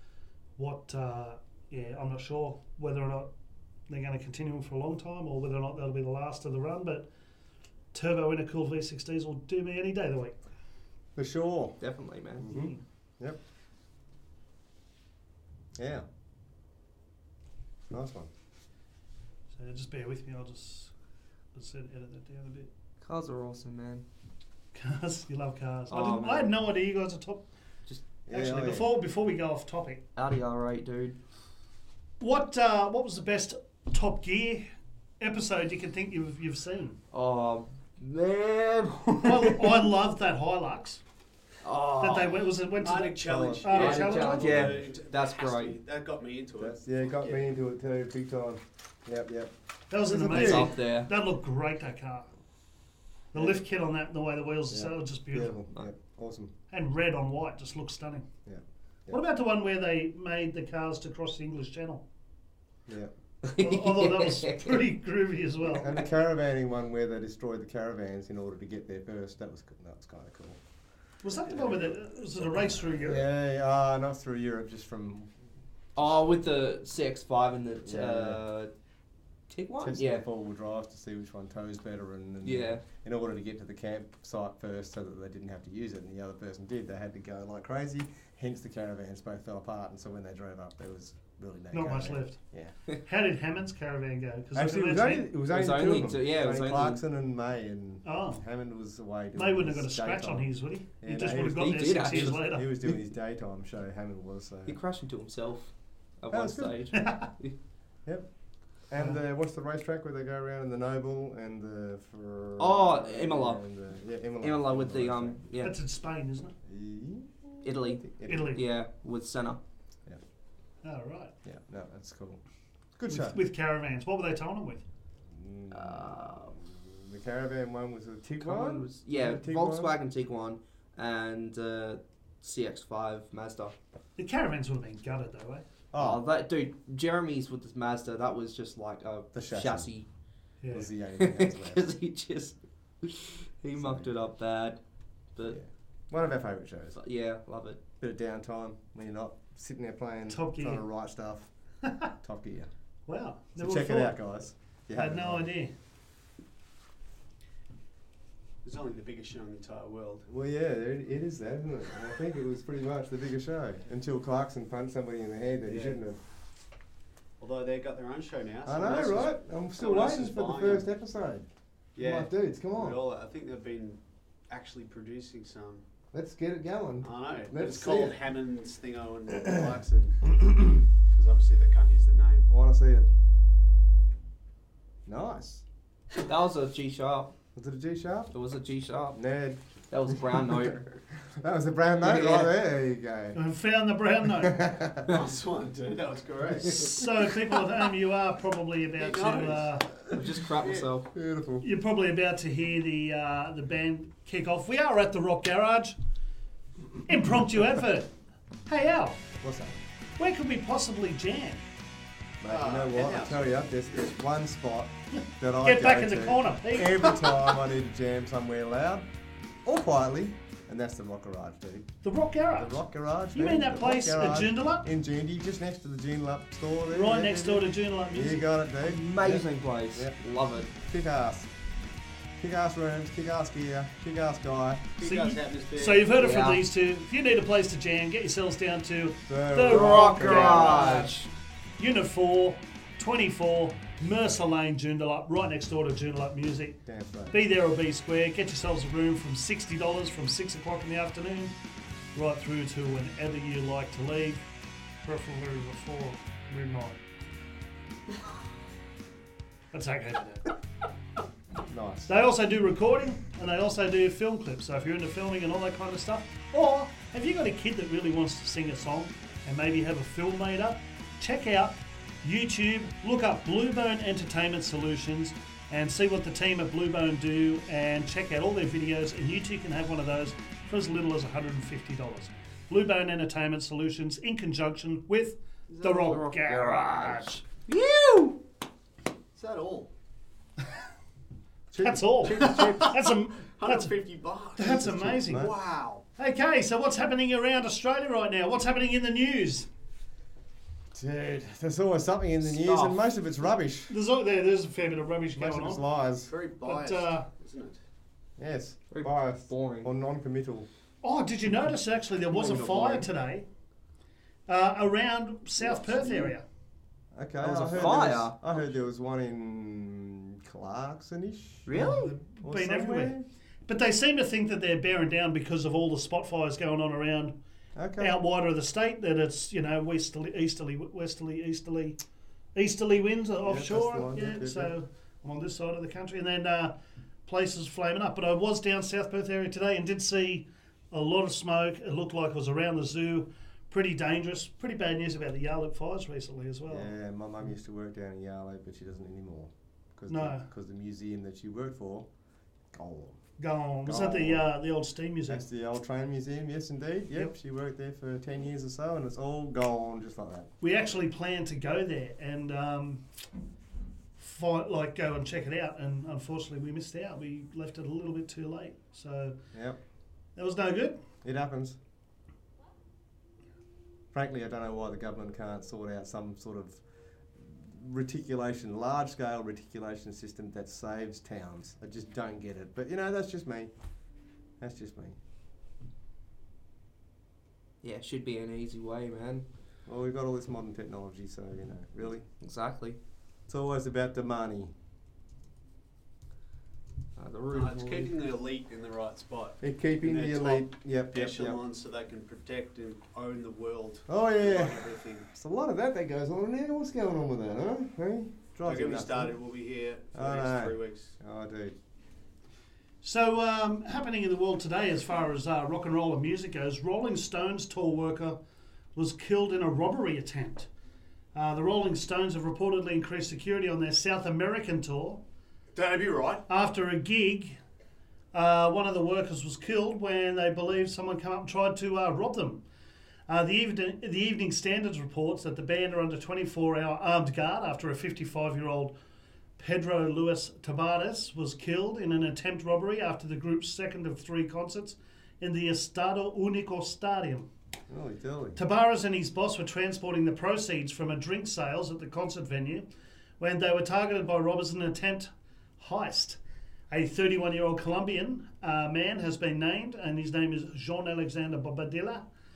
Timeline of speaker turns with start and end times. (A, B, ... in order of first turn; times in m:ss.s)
0:00.6-0:03.3 A
0:03.9-0:07.1 A
0:07.9-0:10.4 A
0:11.2-0:11.8 B
0:11.8-0:12.5 C
0:12.4-0:13.4 B
0:12.5-0:12.8 A
0:15.8-0:16.0 B
0:17.9-0:18.3 B
0:19.5-0:20.9 A
0:21.5-0:22.7 A
0:23.0-0:24.0 C
0:24.7-0:27.4 A
0:25.9-0:26.5 C
0:28.2-0:28.9 B
0:28.3-0:30.0 A
0:30.2-0:31.2 C
0:32.2-0:34.7 A
0:35.2-0:37.0 A
0:37.1-0:39.7 C
0:39.2-0:41.0 A
0:41.6-0:42.4 C
0:42.0-0:44.5 A
0:42.8-0:47.4 D
0:43.2-0:44.8 B
0:43.7-0:45.8 C
0:46.6-0:50.7 B
0:49.9-0:52.3 A
0:50.2-0:51.1 C
0:53.3-0:55.6 A
0:53.3-0:53.6 B
0:54.7-0:56.5 B
0:56.7-0:58.2 A
0:58.4-0:59.2 B
0:59.1-1:02.0 A
1:03.4-1:04.8 C
1:03.6-1:05.9 A
1:05.7-1:10.6 B
1:11.2-1:13.2 A
1:11.5-1:11.8 B
1:12.4-1:15.3 B
1:16.0-1:18.7 C
1:17.8-1:18.4 B
1:19.5-1:20.2 C
1:19.8-1:32.7 B
1:22.4-1:22.8 C
1:31.7-1:32.4 A
1:33.0-1:35.3 A
1:34.5-1:40.5 B
1:35.5-1:37.0 C
1:38.0-1:38.4 A
1:39.3-1:42.7 A
1:41.0-1:44.8 B
1:41.4-1:42.5 C
1:44.7-1:47.5 C
1:46.3-1:46.8 B
1:46.9-1:47.3 A
1:48.9-1:55.4 B
1:52.6-1:53.6 C
1:54.4-1:55.8 C
1:55.6-1:56.5 A
1:56.6-1:58.6 B
1:57.6-1:59.6 C
1:58.2-1:58.6 A
2:00.8-2:01.3 A
2:01.4-2:02.4 B
2:03.0-2:03.4 B
2:03.1-2:04.8 A
2:05.3-2:09.9 B
2:05.7-2:06.6 C
2:08.4-2:13.7 C
2:14.2-2:15.6 A
2:15.9-2:16.2 B
2:16.0-2:20.1 C
2:19.3-2:19.9 B
2:20.6-2:20.9 A
2:20.7-2:21.8 B
2:21.2-2:24.8 C
2:23.8-2:24.1 B
2:25.4-2:27.0 B
2:27.0-2:27.8 C
2:28.0-2:31.5 B
2:30.3-2:30.8 A
2:32.2-2:32.7 B
2:33.1-2:34.2 A
2:33.6-2:35.5 B
2:34.9-2:35.7 A
2:38.6-2:40.2 D
2:40.3-2:46.2 B
2:45.6-2:46.0 D
2:47.4-2:50.9 D
2:48.6-2:51.4 B
2:52.0-2:55.8 D
2:52.0-2:53.0 B
2:56.1-2:58.2 B
2:57.0-3:00.4 D
2:59.4-2:59.7 B
3:01.1-3:02.5 D
3:02.5-3:03.1 B
3:05.0-3:05.6 B
3:06.2-3:07.3 C
3:07.5-3:08.3 B
3:08.3-3:09.2 C
3:09.1-3:09.6 B
3:09.9-3:10.9 C
3:10.1-3:13.4 B
3:12.0-3:12.5 C
3:13.3-3:14.6 A
3:14.2-3:15.2 B
3:15.1-3:17.1 D
3:16.6-3:19.9 A
3:19.0-3:20.9 D
3:20.1-3:21.1 C
3:21.1-3:21.6 B
3:21.6-3:26.0 A
3:27.0-3:28.1 A
3:28.6-3:29.2 A
3:29.4-3:29.8 B
3:30.2-3:31.6 A
3:32.4-3:39.1 B
3:32.4-3:33.6 D
3:35.6-3:37.5 A
3:39.6-3:41.9 B
3:42.0-3:42.8 A
3:42.6-3:50.2 B
3:43.3-3:44.8 A
3:46.9-3:48.5 A
3:48.8-3:50.7 C
3:50.7-3:51.5 B
3:52.4-3:54.9 B
3:55.0-3:56.1 D
3:55.0-4:01.2 A
3:56.2-3:56.6 C
3:59.3-4:01.0 B
3:59.6-4:01.3 C
4:01.8-4:06.8 A
4:06.8-4:07.4 B
4:07.3-4:11.5 A
4:12.1-4:14.4 A
4:15.0-4:17.0 A
4:19.7-4:20.5 A
4:21.7-4:22.1 B
4:22.1-4:47.4 A
4:45.7-4:46.2 D
4:46.1-4:48.4 C
4:49.3-4:49.9 D
4:51.7-4:52.9 B
4:51.8-4:53.9 A
4:52.2-4:56.0 D
4:54.6-4:55.5 A
4:54.6-4:55.5 B
4:56.2-4:59.7 A
5:00.9-5:03.9 B
5:02.4-5:03.1 C
5:03.9-5:05.8 A
5:05.4-5:06.3 B
5:06.2-5:07.8 D
5:06.6-5:07.3 A
5:08.4-5:10.7 B
5:08.9-5:09.9 C
5:11.0-5:13.4 A
5:12.4-5:13.0 C
5:14.5-5:16.4 A
5:15.6-5:16.3 B
5:17.1-5:21.8 B
5:17.4-5:18.4 C
5:21.6-5:22.1 C
5:21.7-5:27.3 A
5:22.4-5:23.2 B
5:27.8-5:28.2 B
5:28.0-5:32.0 A
5:32.5-5:36.7 A
5:33.4-5:34.7 B
5:37.2-5:46.9 A
5:46.7-5:52.1 B
5:50.1-5:50.5 A
5:52.7-5:53.2 B
5:53.4-5:55.4 A
5:53.8-5:54.4 B
5:55.3-6:00.5 B
6:00.6-6:03.0 A
6:04.2-6:09.4 A
6:10.4-6:11.0 A
6:11.2-6:11.8 B
6:14.1-6:16.8 B
6:17.4-6:23.7 B
6:24.6-6:25.2 B
6:27.8-6:29.4 C
6:29.9-6:32.2 B
6:32.4-6:33.0 C
6:33.5-6:34.7 B
6:37.2-6:38.1 C
6:37.5-6:45.3 D
6:39.6-6:41.6 B
6:44.1-6:49.3 B
6:48.6-6:51.1 D
6:50.1-6:51.7 B
6:53.0-6:58.4 A
6:58.9-7:00.7 A
7:01.3-7:05.2 A
7:05.7-7:06.4 D
7:06.5-7:07.6 A
7:08.3-7:12.6 A
7:13.3-7:18.9 A
7:19.6-7:27.5 A
7:27.9-7:28.6 B
7:28.6-7:32.8 A
7:33.4-7:36.4 A
7:36.9-7:42.2 A